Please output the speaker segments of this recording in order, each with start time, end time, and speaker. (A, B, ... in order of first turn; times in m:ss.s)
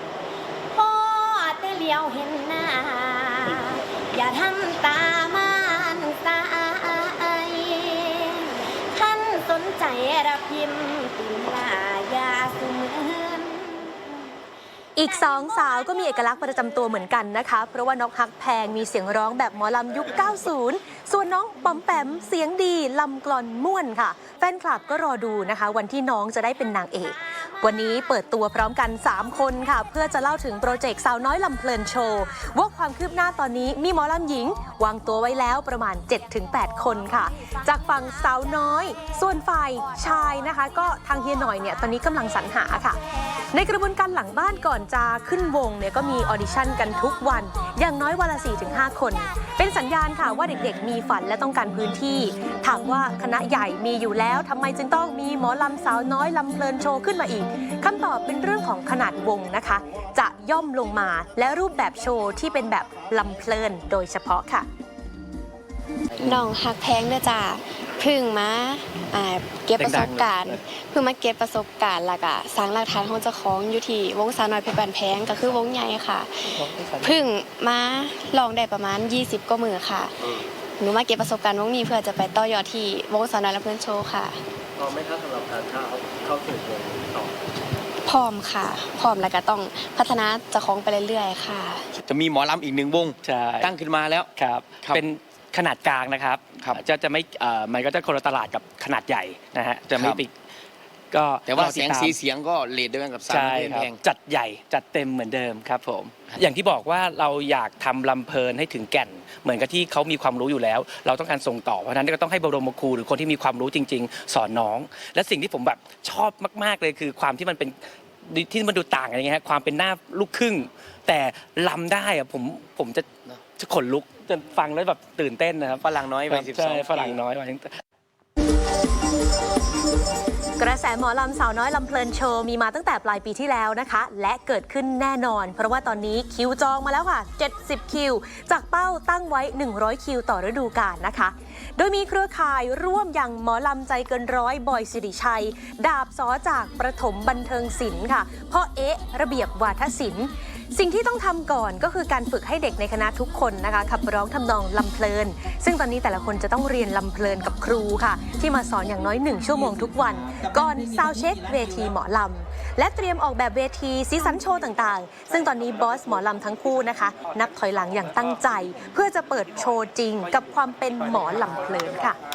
0:00.7-0:14.0 A
0:15.0-0:43.0 B
0:43.5-1:04.7 B
1:06.2-1:24.4 C
1:09.8-1:10.6 D
1:16.6-1:17.2 D
1:24.8-1:27.4 E
1:28.0-1:31.9 C
1:32.0-1:34.3 F
1:33.2-1:33.7 D
1:34.4-1:40.3 D
1:39.9-1:40.2 F
1:41.1-1:42.2 D
1:41.5-1:44.0 F
1:43.3-2:07.7 D
2:05.8-2:07.2 F
2:10.6-2:52.2 B